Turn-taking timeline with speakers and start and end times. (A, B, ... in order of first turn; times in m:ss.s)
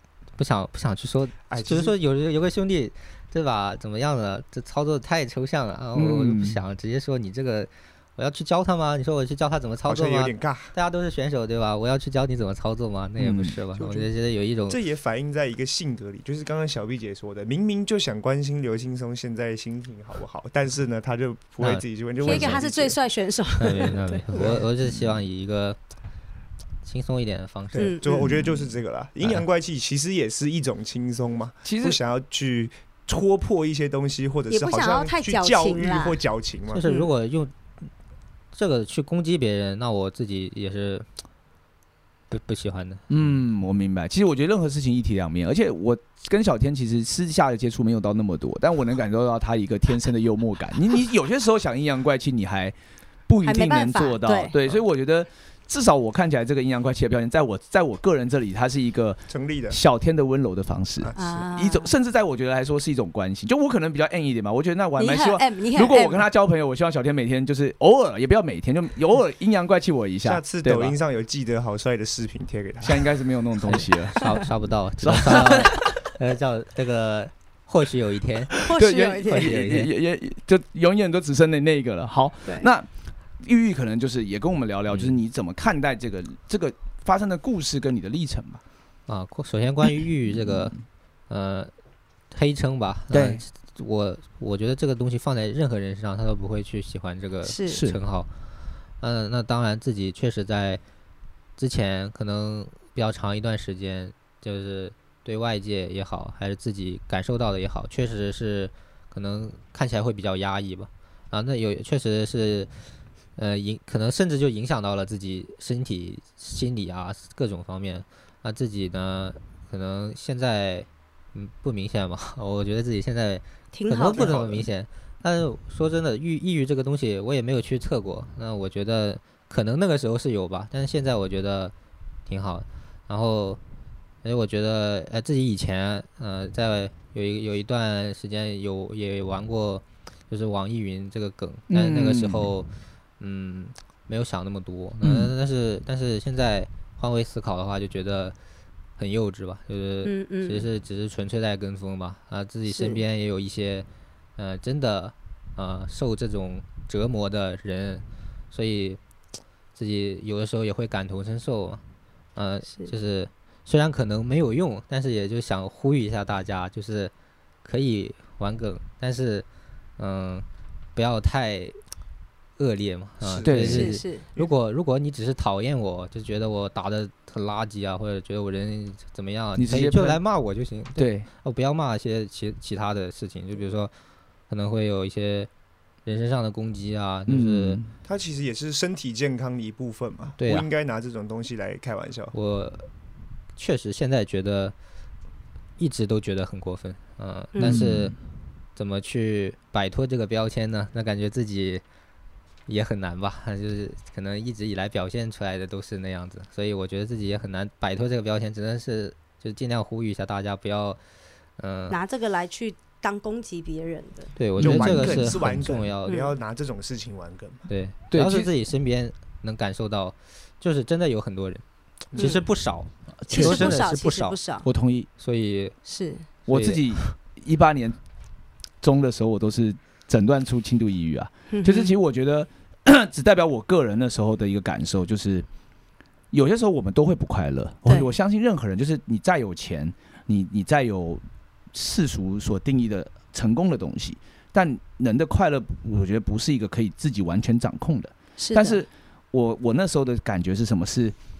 0:00.4-0:14.8 A
0:01.5-0:01.9 B
0:06.0-0:06.6 C
0:09.8-0:10.7 B
0:13.2-0:13.6 C
0:13.7-0:14.1 B
0:14.7-0:23.0 B
0:21.6-0:22.6 A
0:22.2-0:24.6 D
0:23.6-0:25.8 A
0:24.3-0:24.6 B
0:26.8-0:28.0 A
0:27.7-0:36.8 B
0:27.8-0:28.2 D
0:28.2-0:28.5 C
0:31.6-0:32.0 C
0:34.5-0:36.2 D
0:36.7-0:37.5 A
0:36.8-0:37.1 D
0:38.5-0:41.0 A
0:42.3-0:43.3 A
0:43.1-0:52.7 C
0:53.3-1:11.0 C
0:53.4-0:54.6 D
0:59.3-0:59.8 B
1:01.0-1:01.5 B
1:01.2-1:01.9 D
1:05.0-1:06.3 D
1:10.2-1:13.1 B
1:12.8-1:14.3 C
1:13.7-1:18.7 A
1:15.0-1:15.9 C
1:18.6-1:19.6 D
1:18.6-1:28.6 C
1:19.2-1:19.9 A
1:29.1-1:30.8 A
1:30.4-1:30.7 C
1:31.3-1:31.7 A
1:32.3-1:38.3 A
1:33.1-1:33.4 C
1:37.4-1:37.8 D
1:37.7-1:38.0 C
1:39.0-1:40.8 A
1:41.6-1:52.7 A
1:53.4-2:11.7 A
2:03.7-2:04.5 D
2:12.2-2:13.6 A
2:14.2-2:28.4 A
2:21.7-2:22.5 C
2:25.0-2:25.3 C
2:29.0-2:33.8 A
2:30.0-2:30.6 D
2:32.7-2:33.0 D
2:34.4-2:39.0 A
2:39.8-2:41.8 A
2:42.4-2:47.1 A
2:42.7-2:42.9 D
2:47.6-2:49.4 A
2:50.0-2:51.8 A
2:52.6-3:03.9 A
2:53.2-2:54.5 B
2:53.4-2:53.9 C
2:53.6-2:54.2 D
2:59.6-3:00.2 C
3:01.0-3:01.3 C
3:04.5-3:05.5 A
3:06.0-3:07.8 A
3:07.3-3:07.9 C
3:08.0-3:12.3 B
3:10.4-3:10.7 A
3:12.3-3:12.9 A
3:13.6-3:14.7 A
3:15.8-3:18.1 A
3:17.5-3:17.8 D
3:17.6-3:18.1 C
3:18.8-3:21.8 A
3:22.7-3:31.0 A
3:31.6-3:32.0 A
3:31.9-3:34.3 D
3:34.4-3:36.2 A
3:34.6-3:35.6 C
3:34.6-3:37.7 B
3:36.0-3:36.3 D
3:37.7-3:44.4 A
3:38.1-3:38.5 C
3:42.1-3:42.4 D
3:43.2-3:43.8 C
3:43.3-3:44.7 D
3:44.6-3:45.1 C
3:45.2-3:45.8 A
3:45.8-3:46.3 D
3:46.5-3:47.0 A
3:46.5-3:48.0 C
3:48.8-3:55.4 C
3:51.5-3:52.0 D
3:56.3-4:11.2 C
4:08.4-4:08.8 D